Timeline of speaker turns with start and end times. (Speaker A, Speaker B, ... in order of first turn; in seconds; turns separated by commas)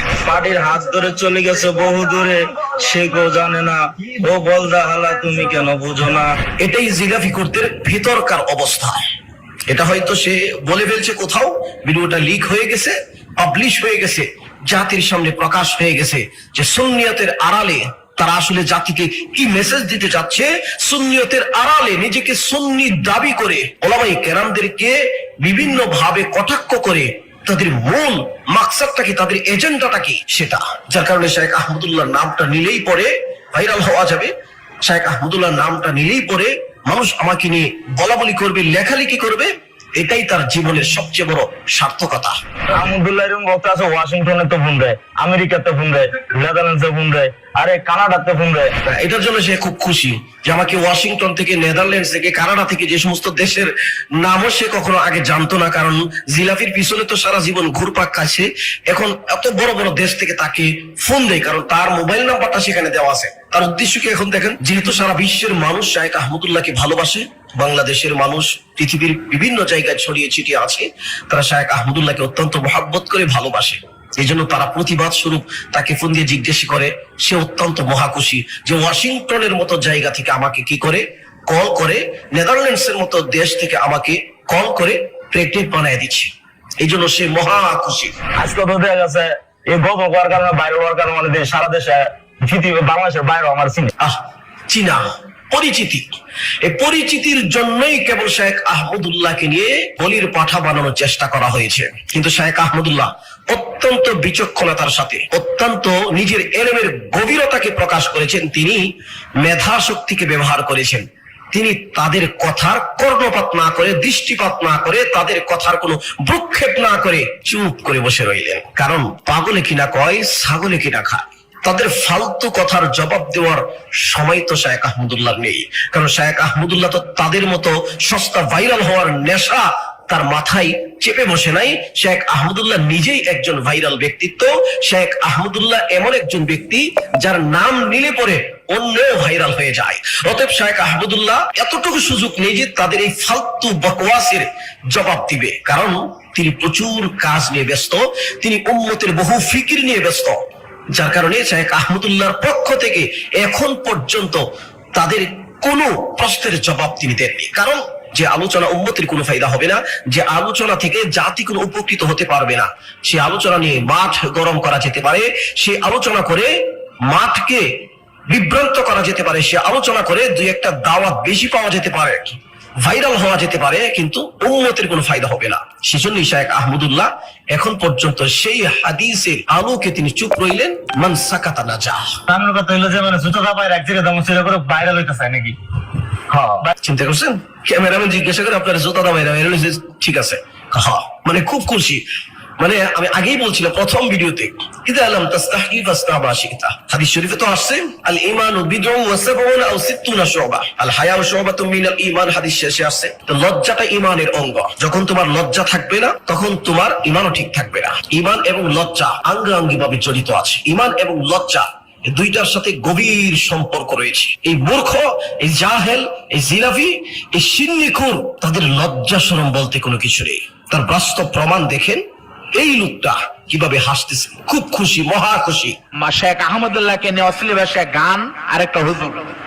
Speaker A: 0.3-6.3, Speaker B: 6.6-9.1, Speaker B: 9.7-34.3, Speaker B: 34.8-42.4, Speaker A: 42.7-48.7, Speaker B: 48.9-88.2, Speaker A: 88.4-93.9, Speaker B: 94.0-108.8, Speaker B: 109.4-150.4, Speaker B: 150.9-154.4, Speaker B: 154.9-166.5, Speaker B: 167.1-182.2, Speaker A: 182.3-185.6, Speaker A: 186.3-186.7, Speaker B: 186.8-192.0, Speaker B: 192.6-225.8, Speaker C: 226.0-229.2